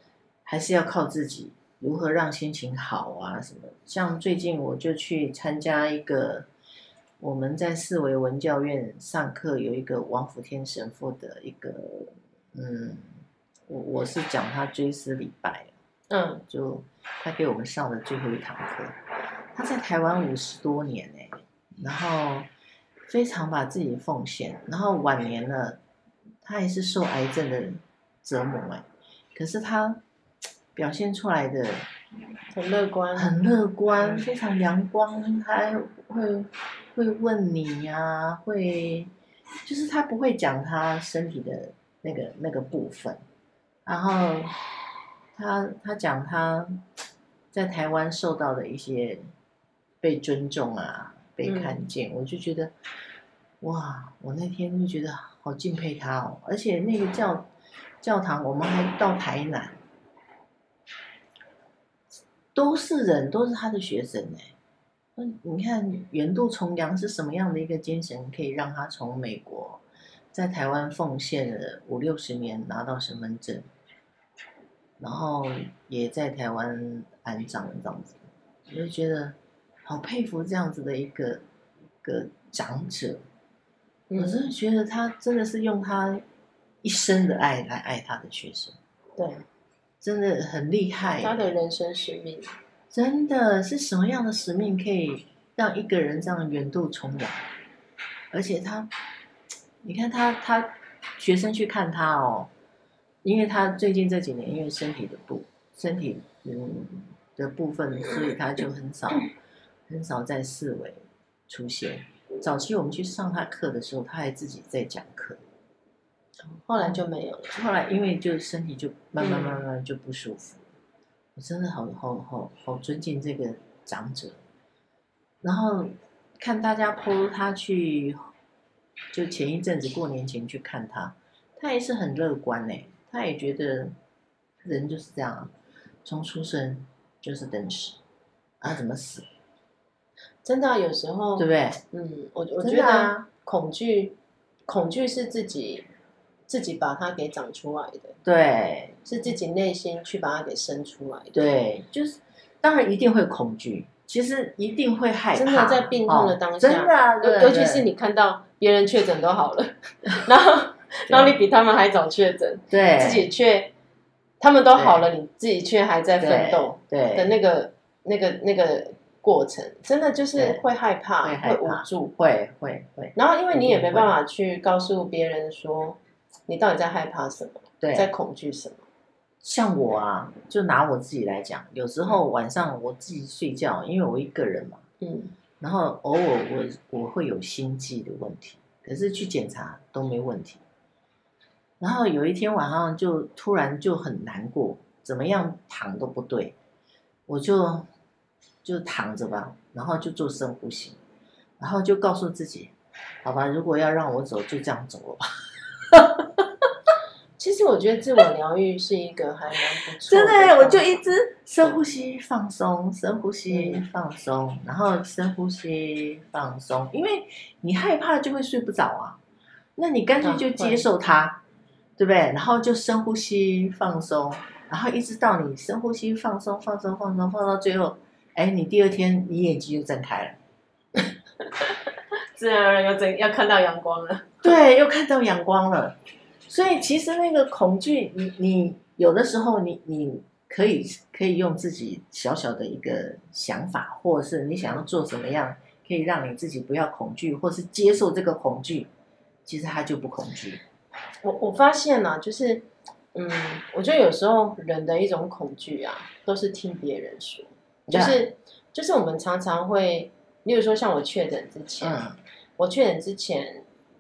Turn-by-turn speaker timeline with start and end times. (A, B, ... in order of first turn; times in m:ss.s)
0:00.4-0:06.5 A
0:07.2-0:13.1 A
0:13.7-0:15.7 A
0:16.1-0:16.4 B
0:16.5-0:19.0 A
0:19.6-0:22.5 A
0:23.1-0:25.8 A
0:26.4-0:30.0 A
0:30.8-0:31.9 A
0:32.5-0:33.4 B
0:33.2-0:39.1 A
0:33.9-0:34.2 B
0:39.6-0:43.2 A
0:43.9-0:44.6 A
0:45.3-0:46.8 A
0:47.5-0:49.3 A
0:50.0-0:52.7 A
0:51.4-0:51.8 B
0:53.6-0:57.5 A
0:58.0-0:59.8 A
1:02.5-1:04.5 A
1:05.2-1:09.8 A
1:10.3-1:13.7 A
1:15.0-1:21.4 A
1:22.0-1:23.2 A
1:24.1-1:24.5 B
1:24.2-1:26.2 A
1:26.8-1:28.8 A
1:29.2-1:29.4 B
1:30.0-1:31.5 A
1:31.2-1:32.5 B
1:32.9-1:37.4 A
1:38.3-1:38.9 A
1:39.8-1:42.5 A
1:43.2-1:49.3 A
1:49.9-1:55.4 A
1:56.6-1:57.6 B
1:57.5-2:00.6 A
1:59.2-1:59.6 B
2:01.4-2:04.4 A
2:05.4-2:08.3 A
2:09.1-2:13.9 A
2:14.6-2:15.5 A
2:16.0-2:18.0 A
2:18.6-2:19.3 A
2:20.4-2:25.9 B
2:21.4-2:21.8 A
2:22.6-2:23.2 A
2:26.5-2:28.2 B
2:28.2-2:29.0 A
2:29.0-2:31.5 B
2:31.3-2:37.8 A
2:35.3-2:43.7 B
2:41.1-2:41.3 A
2:42.7-2:43.3 A
2:44.4-2:52.1 B
2:44.8-2:45.0 A
2:46.2-2:47.3 A
2:50.4-2:50.6 A
2:51.2-2:54.1 A
2:53.2-2:58.8 B
2:57.8-2:58.1 A
2:59.4-3:04.8 A
3:05.0-3:05.3 B
3:05.6-3:10.6 A
3:11.8-3:16.6 A
3:17.3-3:17.9 A
3:18.6-3:21.0 A
3:21.6-3:25.3 A
3:25.9-3:26.5 A
3:27.4-3:31.0 B
3:30.1-3:39.2 A
3:33.5-3:33.8 B
3:39.8-3:41.4 A
3:40.2-3:40.9 B
3:42.0-3:50.4 A
3:52.4-3:54.6 B
3:54.4-4:08.9 A
4:09.4-4:10.6 A
4:11.2-4:22.0 B
4:17.9-4:18.2 A
4:21.8-4:22.2 A
4:22.6-4:23.6 B